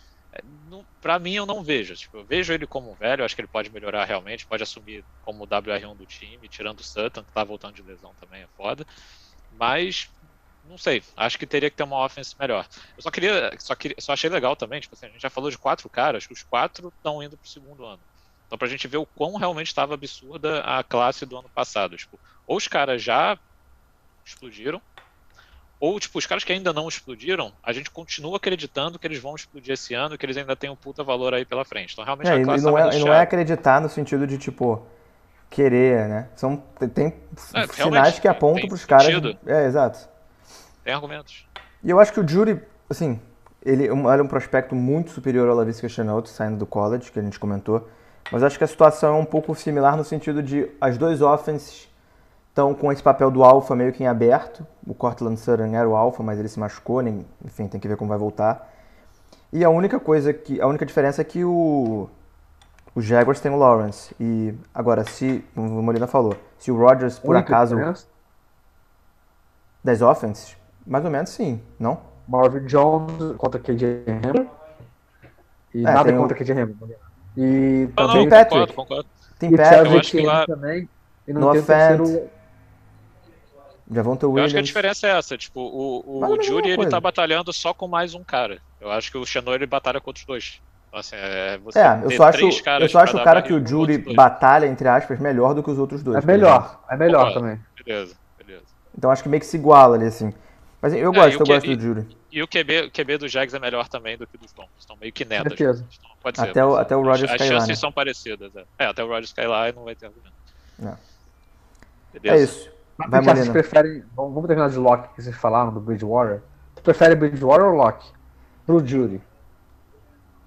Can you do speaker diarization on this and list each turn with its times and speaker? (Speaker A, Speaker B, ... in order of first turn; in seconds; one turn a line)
Speaker A: 0.3-8.8
Speaker A: 9.5-23.4
Speaker A: 24.2-24.8
Speaker A: 25.8-33.3
Speaker B: 32.2-34.9
Speaker B: 35.5-40.1
Speaker A: 37.5-39.4
Speaker A: 40.8-41.5
Speaker B: 41.8-51.9
Speaker B: 52.5-58.7
Speaker B: 59.5-62.1
Speaker B: 62.9-67.9
Speaker C: 67.2-68.0
Speaker B: 69.8-72.1
Speaker C: 72.3-74.5
Speaker C: 75.7-78.4
Speaker B: 75.8-76.3
Speaker A: 78.0-79.0
Speaker B: 78.1-78.7
Speaker B: 79.4-80.1
Speaker C: 79.5-82.3
Speaker A: 79.7-80.5
Speaker B: 81.4-82.2
Speaker B: 83.9-84.8
Speaker A: 84.3-94.2
Speaker B: 86.2-87.0
Speaker B: 91.7-96.7
Speaker C: 96.1-97.6
Speaker A: 97.1-98.7
Speaker B: 99.0-102.1
Speaker A: 101.1-110.3
Speaker C: 105.4-105.9
Speaker B: 106.3-107.8
Speaker A: 112.1-112.5
Speaker B: 112.3-113.6
Speaker C: 113.0-118.1
Speaker C: 118.7-119.2